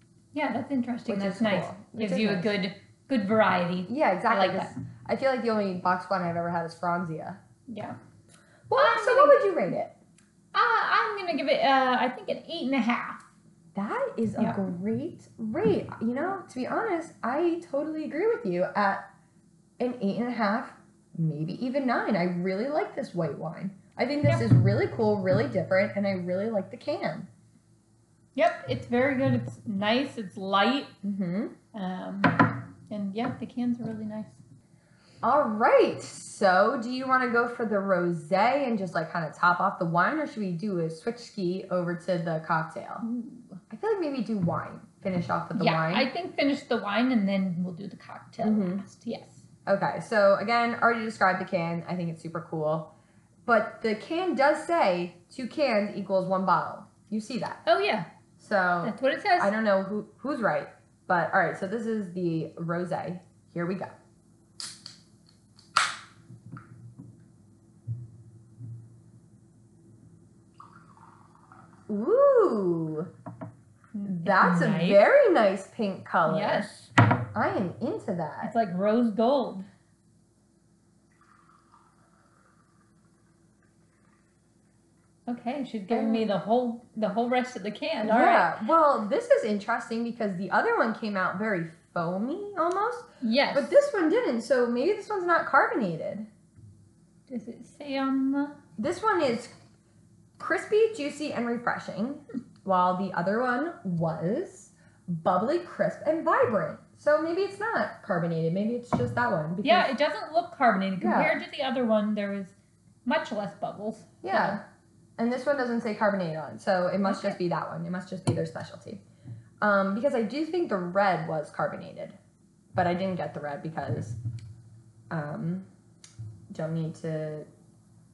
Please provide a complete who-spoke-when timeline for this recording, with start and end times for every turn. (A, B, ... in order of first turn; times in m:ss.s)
0:00.3-0:04.7 A
0:01.1-0:02.6 B
0:03.9-0:07.4 B
0:07.7-0:08.0 A
0:08.7-0:09.9 B
0:08.7-0:09.4 A
0:10.5-0:13.2 A
0:13.7-0:19.0 B
0:19.8-0:27.3 B
0:24.2-0:24.5 A
0:28.4-0:30.9 A
0:31.0-0:31.5 B
0:31.7-0:34.4 A
0:35.2-0:43.0 B
0:43.0-0:43.6 A
0:43.7-0:46.1 B
0:45.5-0:49.4 A
0:48.4-0:48.8 B
0:49.6-0:52.9 B
0:53.4-0:57.6 B
0:57.6-0:58.1 A
0:58.4-1:03.9 B
0:58.8-0:59.5 A
1:11.9-1:13.1 B
1:13.9-1:15.0 A
1:14.2-1:16.7 B
1:16.2-1:16.9 A
1:17.3-1:18.5 B
1:18.4-1:19.7 A
1:25.3-1:28.6 A
1:25.9-1:26.4 B
1:28.0-1:36.3 B
1:33.2-1:33.8 A
1:37.3-1:38.6 A
1:38.8-1:39.5 B
1:40.4-1:49.9 B
1:49.6-1:54.6 A
1:51.0-1:51.4 B
1:54.2-1:54.6 B
1:55.2-1:59.0 B
1:57.0-1:57.4 A
1:59.6-2:02.2 B
2:02.7-2:04.2 B
2:05.1-2:05.7 B
2:06.5-2:07.5 B